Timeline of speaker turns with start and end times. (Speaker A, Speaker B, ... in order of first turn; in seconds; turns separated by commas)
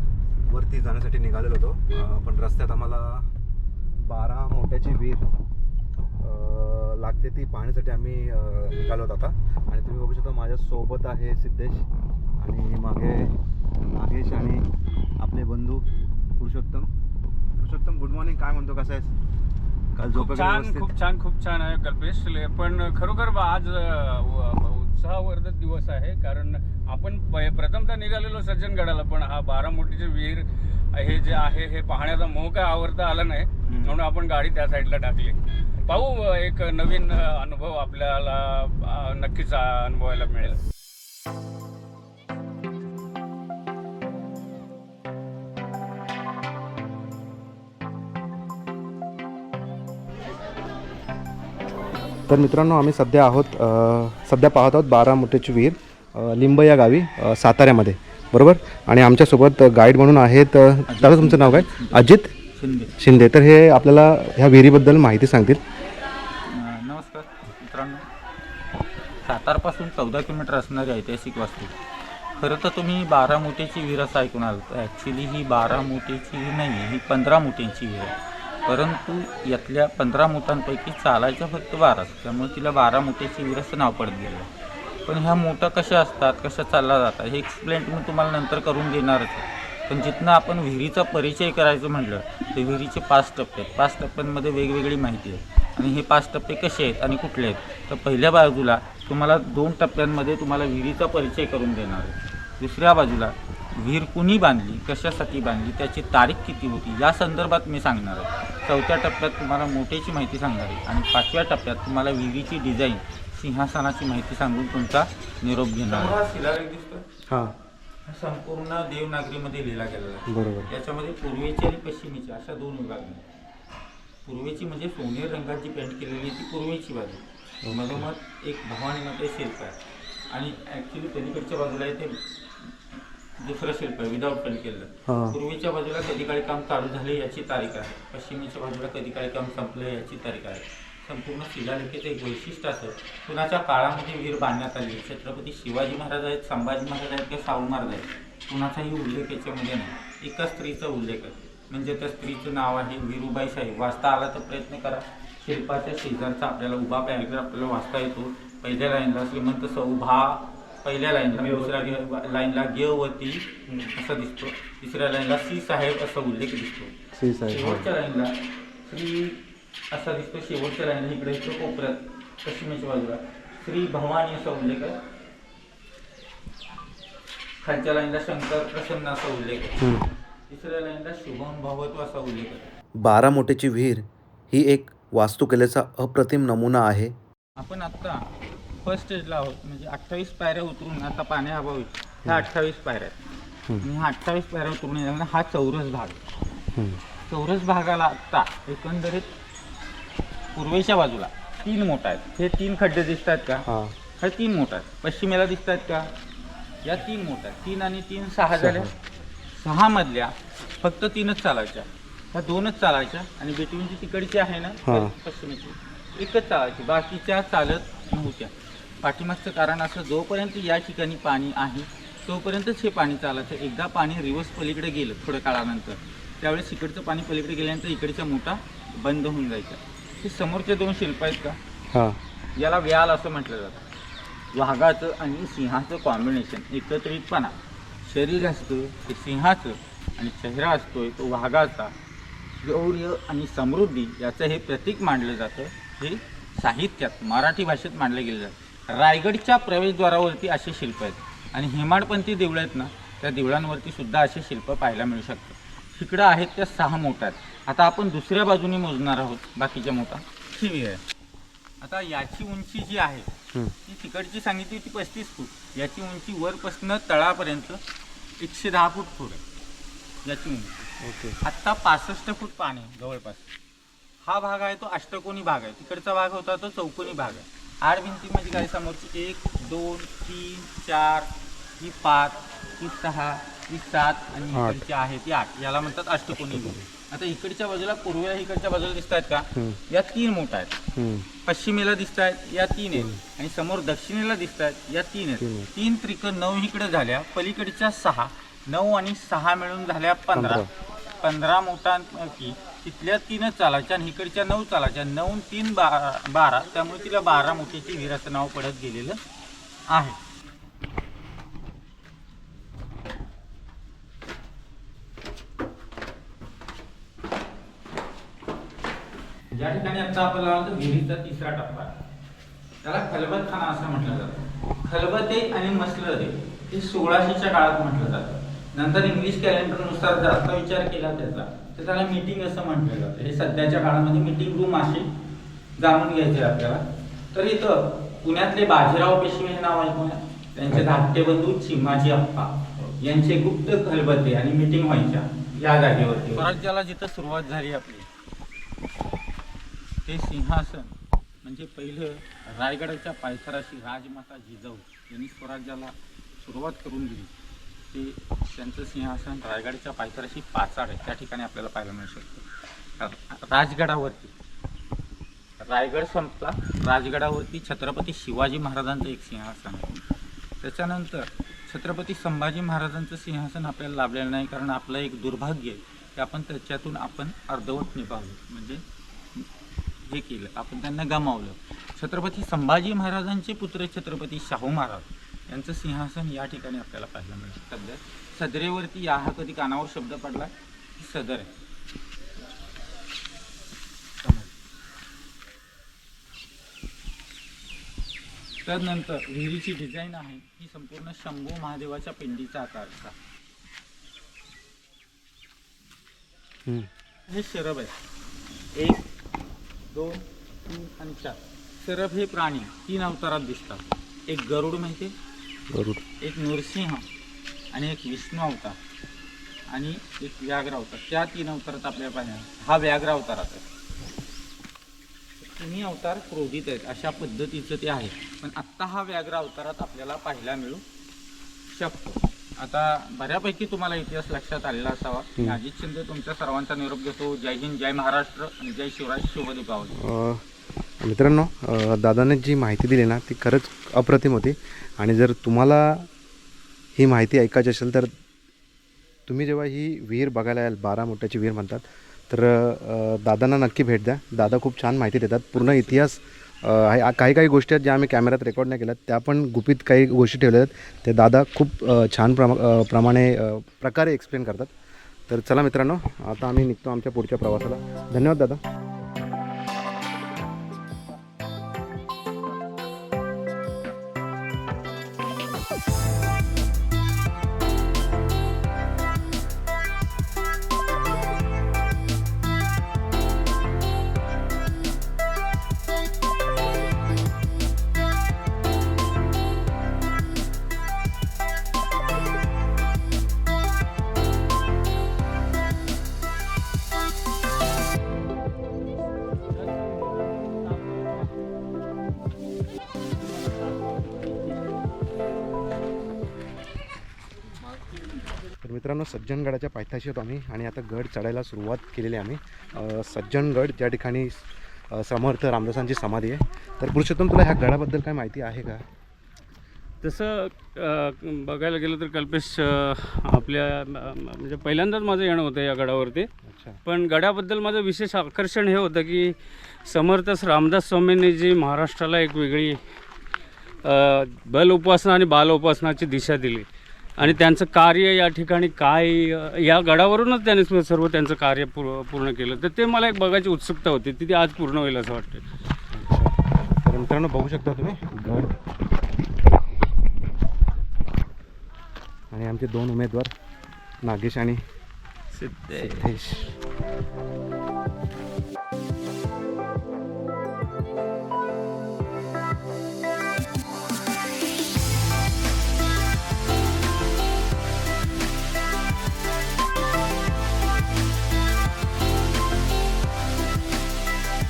Speaker A: 0.5-3.3, Speaker A: 4.0-5.3, Speaker A: 6.2-11.9, Speaker A: 12.4-13.3, Speaker A: 13.9-16.9, Speaker A: 17.6-19.1, Speaker A: 19.9-20.9, Speaker B: 20.1-40.6, Speaker A: 33.7-34.0, Speaker A: 52.3-62.3, Speaker C: 60.9-63.0, Speaker A: 63.0-65.6, Speaker C: 66.4-68.1, Speaker C: 69.2-71.7, Speaker C: 72.4-84.5, Speaker C: 85.0-117.0, Speaker A: 117.3-117.5, Speaker C: 118.0-123.2, Speaker A: 120.3-120.7, Speaker C: 124.2-129.8, Speaker A: 127.6-128.1, Speaker C: 130.3-132.7, Speaker C: 133.4-166.9, Speaker A: 135.1-135.4, Speaker A: 167.2-167.9, Speaker C: 167.5-169.4, Speaker C: 169.9-175.0, Speaker C: 177.6-180.0, Speaker A: 179.8-180.1, Speaker C: 180.5-182.7, Speaker A: 183.0-187.2, Speaker C: 187.6-188.3, Speaker C: 188.8-193.2, Speaker C: 193.8-196.2, Speaker A: 196.8-197.0, Speaker C: 197.3-199.3, Speaker C: 200.6-203.6, Speaker A: 203.7-203.9, Speaker C: 204.2-206.1, Speaker C: 206.8-208.9, Speaker A: 208.6-208.9, Speaker C: 209.6-231.6, Speaker A: 214.8-215.1, Speaker A: 231.9-232.2, Speaker C: 232.6-233.8, Speaker C: 234.5-241.9, Speaker C: 242.6-261.0, Speaker C: 261.8-263.3, Speaker C: 263.9-267.8, Speaker C: 268.4-269.4, Speaker C: 270.2-270.9, Speaker A: 271.0-271.4, Speaker C: 271.4-273.5, Speaker C: 274.2-290.7, Speaker A: 284.5-284.8, Speaker A: 286.5-286.9, Speaker A: 290.9-291.3, Speaker C: 291.4-309.2, Speaker A: 292.9-293.2, Speaker A: 295.4-295.7, Speaker A: 300.3-300.7, Speaker C: 309.9-310.2, Speaker C: 319.5-321.9, Speaker C: 322.8-335.1, Speaker C: 335.8-348.1, Speaker C: 350.1-357.3, Speaker C: 357.9-362.4, Speaker C: 363.0-364.3, Speaker C: 365.6-370.0, Speaker C: 370.6-378.8, Speaker C: 380.1-391.5, Speaker C: 398.6-403.2, Speaker C: 407.3-408.0, Speaker C: 408.8-409.1, Speaker C: 409.9-415.1, Speaker A: 415.7-416.0, Speaker C: 416.2-417.1, Speaker C: 417.7-418.8, Speaker C: 419.7-423.7, Speaker C: 425.4-430.8, Speaker C: 431.7-440.0, Speaker A: 440.0-440.4, Speaker A: 441.0-446.1, Speaker A: 447.0-448.1, Speaker A: 449.3-464.7, Speaker A: 465.3-468.6, Speaker A: 508.6-518.8, Speaker B: 520.0-526.3, Speaker A: 526.5-526.8, Speaker B: 526.9-532.8, Speaker B: 533.8-545.4, Speaker A: 545.9-548.5, Speaker A: 552.3-553.3, Speaker A: 554.0-554.6, Speaker B: 555.3-556.0, Speaker A: 555.7-556.6